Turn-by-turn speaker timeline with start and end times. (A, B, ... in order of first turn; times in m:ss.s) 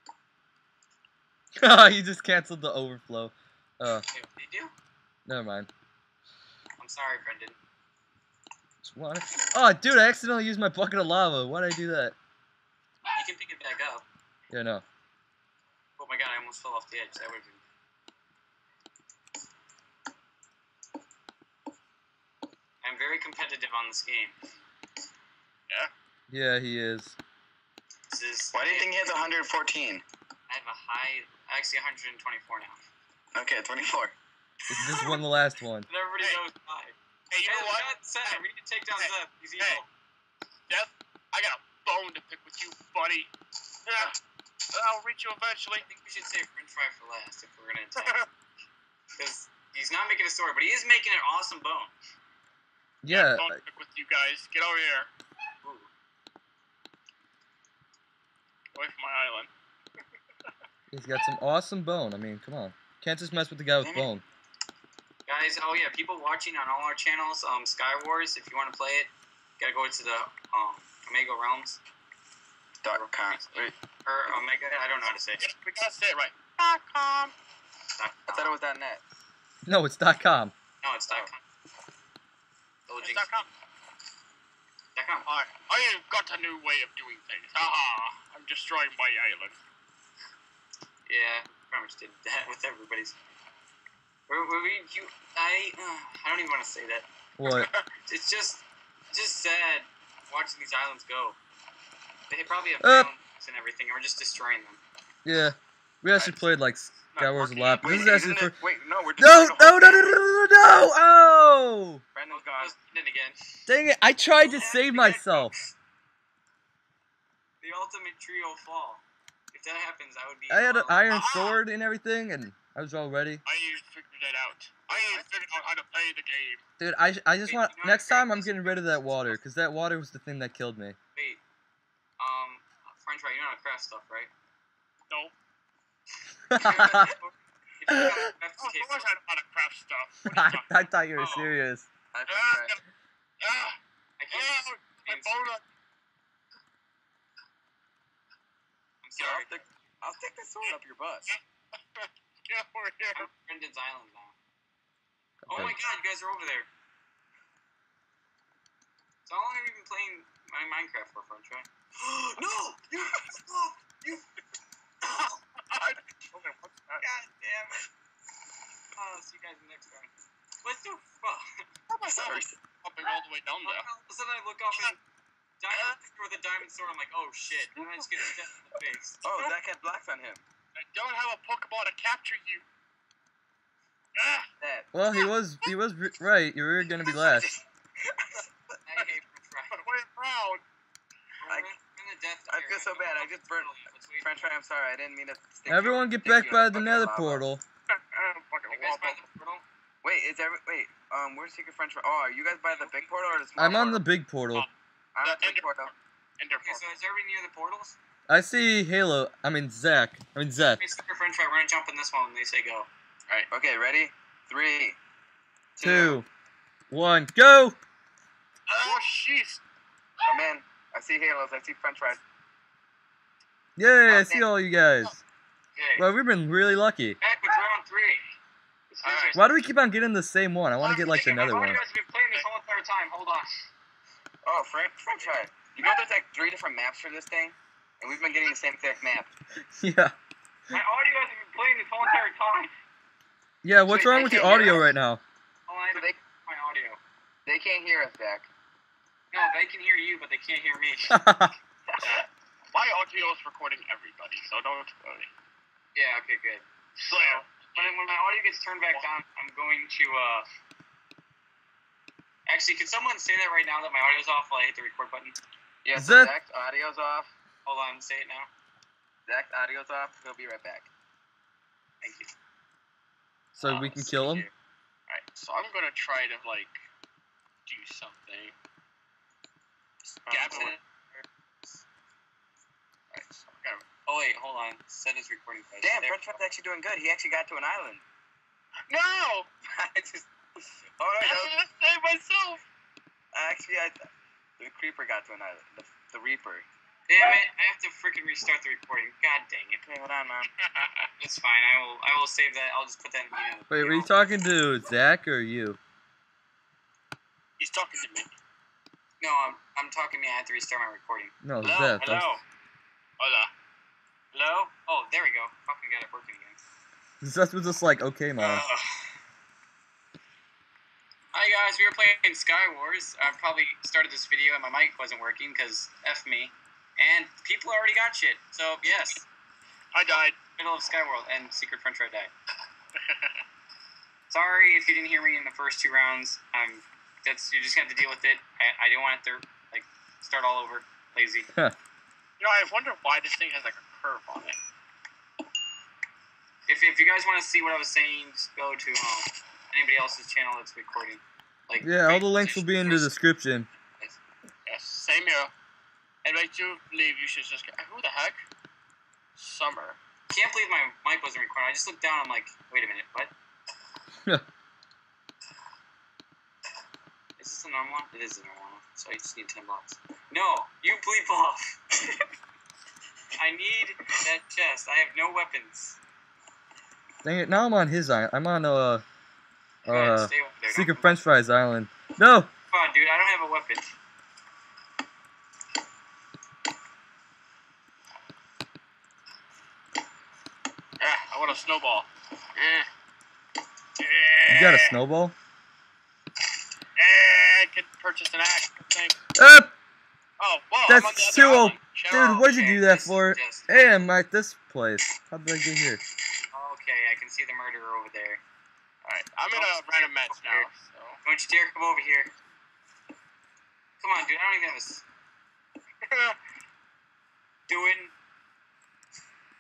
0:01.6-0:04.0 A
0:04.1-0:04.7 B
0:05.3-0:05.7 A
0:06.8-0:07.6 B
0:08.8-0:12.2 A
0:13.1-0:14.0 B
0:14.5-0:14.8 A
0:16.0-0:17.6 B
0:22.8-0:24.4 B
0:26.3-0:27.2 A
0:28.1-0:28.9 B
0:28.5-0:30.0 C
0:30.5-0:32.8 B
0:33.3-0:34.2 C
0:34.7-0:35.9 A
0:34.7-0:35.2 B
0:35.9-0:39.9 B
0:37.3-0:38.4 D
0:39.0-0:39.8 D
0:40.7-0:43.3 D
0:43.9-0:44.2 D
0:44.7-0:45.8 D
0:45.8-0:48.3 B
0:48.0-0:48.3 D
0:49.2-0:52.0 B
0:53.0-0:53.6 A
0:53.1-0:55.1 D
0:55.6-0:55.9 B
0:58.7-0:59.5 D
1:00.9-1:04.2 A
1:03.8-1:04.1 C
1:05.3-1:11.8 B
1:12.8-1:13.7 C
1:12.9-1:15.5 B
1:15.4-1:17.3 D
1:18.0-1:18.6 B
1:18.3-1:19.0 C
1:19.7-1:20.5 A
1:20.8-1:21.4 B
1:22.9-1:23.4 B
1:23.0-1:23.5 D
1:25.0-1:25.3 B
1:25.3-1:29.6 D
1:31.1-1:33.2 B
1:34.3-1:37.1 B
1:37.4-1:37.7 A
1:37.4-1:37.9 D
1:38.1-1:41.4 B
1:42.3-1:44.8 B
1:42.8-1:43.1 A
1:45.2-1:48.5 A
1:47.1-1:48.1 D
1:47.8-1:50.1 C
1:49.2-1:52.0 A
1:52.1-1:52.7 C
1:52.3-1:53.4 B
1:53.7-1:55.5 A
1:54.4-1:55.5 B
1:57.6-2:01.1 B
2:00.5-2:03.4 A
2:01.1-2:01.6 D
2:03.4-2:06.6 D
2:06.8-2:11.0 A
2:07.4-2:09.4 B
2:11.2-2:11.4 B
2:12.2-2:14.3 B
2:16.5-2:17.2 A
2:16.6-2:19.1 B
2:17.9-2:18.3 A
2:18.6-2:20.7 D
2:20.3-2:21.9 A
2:21.2-2:21.6 B
2:22.1-2:22.8 C
2:22.3-2:22.8 D
2:23.4-2:23.8 D
2:24.2-2:25.5 B
2:24.3-2:25.6 D
2:29.0-2:29.6 B
2:29.2-2:31.4 C
2:31.9-2:33.3 D
2:33.1-2:34.3 B
2:35.4-2:35.8 A
2:35.5-2:36.7 B
2:39.3-2:44.2 B
2:45.0-2:45.4 B
2:45.7-2:47.0 D
2:47.0-2:47.8 B
2:49.0-2:50.1 B
2:50.6-2:51.7 B
2:51.9-2:53.9 D
2:52.1-2:52.5 C
2:53.6-2:55.0 B
2:55.6-2:59.6 B
2:55.7-2:56.0 D
2:59.2-3:00.4 C
3:00.8-3:02.6 D
3:04.2-3:04.5 D
3:04.6-3:04.9 C
3:04.9-3:07.5 A
3:07.2-3:08.4 C
3:08.8-3:09.9 B
3:09.7-3:10.6 D
3:11.4-3:14.5 B
3:12.5-3:17.4 C
3:15.7-3:17.6 A
3:17.9-3:19.2 D
3:18.7-3:19.6 B
3:20.0-3:24.0 C
3:22.8-3:23.2 B
3:23.6-3:24.7 A
3:25.2-3:25.9 C
3:25.2-3:26.9 D
3:26.5-3:28.0 B
3:28.3-3:30.8 A
3:30.6-3:32.9 B
3:33.5-3:35.0 C
3:35.8-3:36.2 C
3:35.8-3:36.3 A
3:36.9-3:37.8 A
3:38.7-3:39.6 D
3:40.3-3:42.2 C
3:43.8-3:45.2 A
3:44.1-3:44.5 C
3:45.8-3:46.0 B
3:46.0-3:47.2 A
3:47.2-3:48.3 B
3:48.9-3:49.5 B
3:49.0-3:49.4 D
3:49.4-3:51.8 A
3:50.8-3:53.5 B
3:54.4-3:59.3 C
3:59.8-4:00.1 A
4:00.7-4:02.7 B
4:03.6-4:05.2 A
4:03.9-4:04.8 B
4:03.9-4:04.8 C
4:05.7-4:07.0 B
4:07.5-4:08.5 C
4:09.3-4:11.2 B
4:11.1-4:11.5 A
4:11.9-4:12.2 B
4:12.0-4:15.3 D
4:16.0-4:20.5 B
4:17.1-4:17.9 D
4:22.5-4:25.4 B
4:25.8-4:27.3 C
4:26.0-4:26.3 A
4:27.6-4:28.5 B
4:29.3-4:30.9 C
4:32.0-4:32.3 B
4:33.6-4:34.5 A
4:33.6-4:34.5 B
4:35.1-4:36.8 D
4:37.7-4:38.5 D
4:40.3-4:40.8 D
4:40.3-4:40.8 B
4:40.3-4:40.8 C
4:43.1-4:43.8 D
4:44.1-4:46.2 B
4:45.8-4:48.0 C
4:48.9-4:49.5 D
4:49.6-4:50.3 C
4:51.0-4:51.6 C
4:51.2-4:52.6 D
4:53.3-4:54.1 C
4:54.6-4:56.7 C
4:57.1-4:59.8 B
4:59.8-5:00.5 C
5:00.6-5:01.1 D
5:01.2-5:04.1 B
5:03.7-5:05.8 A
5:07.6-5:08.3 D
5:09.2-5:11.3 B
5:11.4-5:12.3 A
5:11.6-5:12.3 D
5:12.0-5:12.4 B
5:13.2-5:13.5 D
5:14.3-5:16.6 B
5:17.2-5:18.6 A
5:18.4-5:19.1 B
5:21.3-5:29.2 B
5:29.9-5:30.4 D
5:30.1-5:32.3 B
5:33.0-5:33.4 D
5:34.3-5:41.5 B
5:42.4-5:44.6 D
5:46.7-5:53.2 B
5:51.8-5:53.7 A
5:54.7-5:55.5 D
5:56.2-5:58.4 D
5:59.4-6:00.0 D
6:00.3-6:03.3 B
6:07.4-6:11.6 B
6:13.4-6:16.0 B
6:17.2-6:19.0 A
6:19.8-6:21.2 B
6:19.9-6:22.5 A
6:22.7-6:23.9 B
6:31.0-6:32.9 D
6:34.0-6:35.0 D
6:34.5-6:35.3 A
6:37.0-6:39.2 D
6:39.4-6:39.7 A
6:40.4-6:42.4 D
6:40.9-6:46.0 A
6:42.3-6:43.9 B
6:46.5-6:48.4 B
6:49.0-6:51.2 D
6:49.5-6:50.7 B
6:51.2-6:52.3 B
6:54.0-6:55.0 B
6:56.0-6:56.4 D
6:57.7-6:58.1 B